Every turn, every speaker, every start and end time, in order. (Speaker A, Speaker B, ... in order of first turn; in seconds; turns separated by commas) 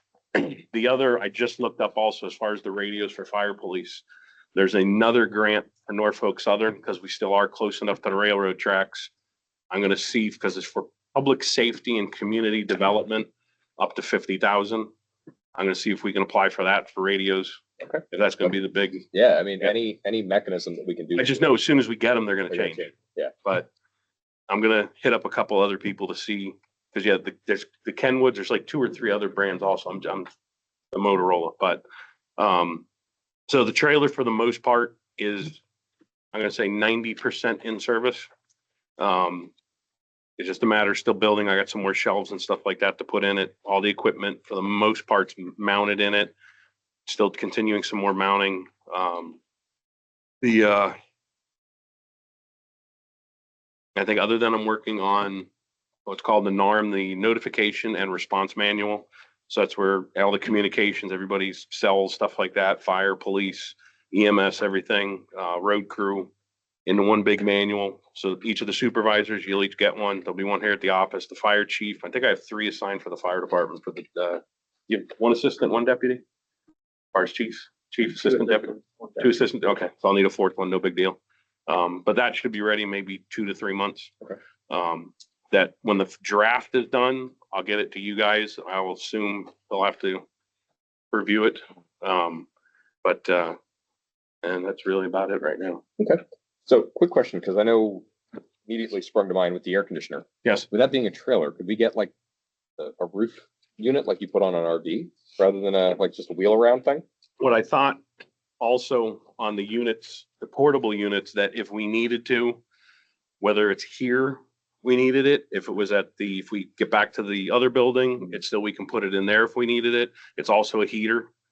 Speaker A: 0.3-4.0, Speaker A: 4.5-9.1, Speaker A: 9.7-14.9, Speaker A: 15.5-17.6, Speaker B: 17.8-18.5, Speaker A: 18.1-19.1, Speaker B: 19.1-21.4, Speaker A: 21.1-23.7, Speaker B: 22.5-23.3, Speaker A: 24.5-30.3, Speaker A: 30.9-31.8, Speaker A: 32.4-32.8, Speaker A: 33.5-35.6, Speaker A: 36.3-38.3, Speaker A: 39.0-39.5, Speaker A: 40.4-46.3, Speaker A: 47.0-49.4, Speaker A: 50.4-50.9, Speaker A: 53.9-55.5, Speaker A: 56.0-66.3, Speaker A: 66.8-76.2, Speaker A: 77.1-84.1, Speaker A: 84.7-90.2, Speaker A: 91.1-92.5, Speaker A: 93.0-93.6, Speaker A: 94.4-95.8, Speaker B: 96.0-98.1, Speaker B: 98.6-102.1, Speaker B: 102.8-107.0, Speaker A: 107.4-108.0, Speaker A: 108.6-112.6, Speaker A: 113.4-121.3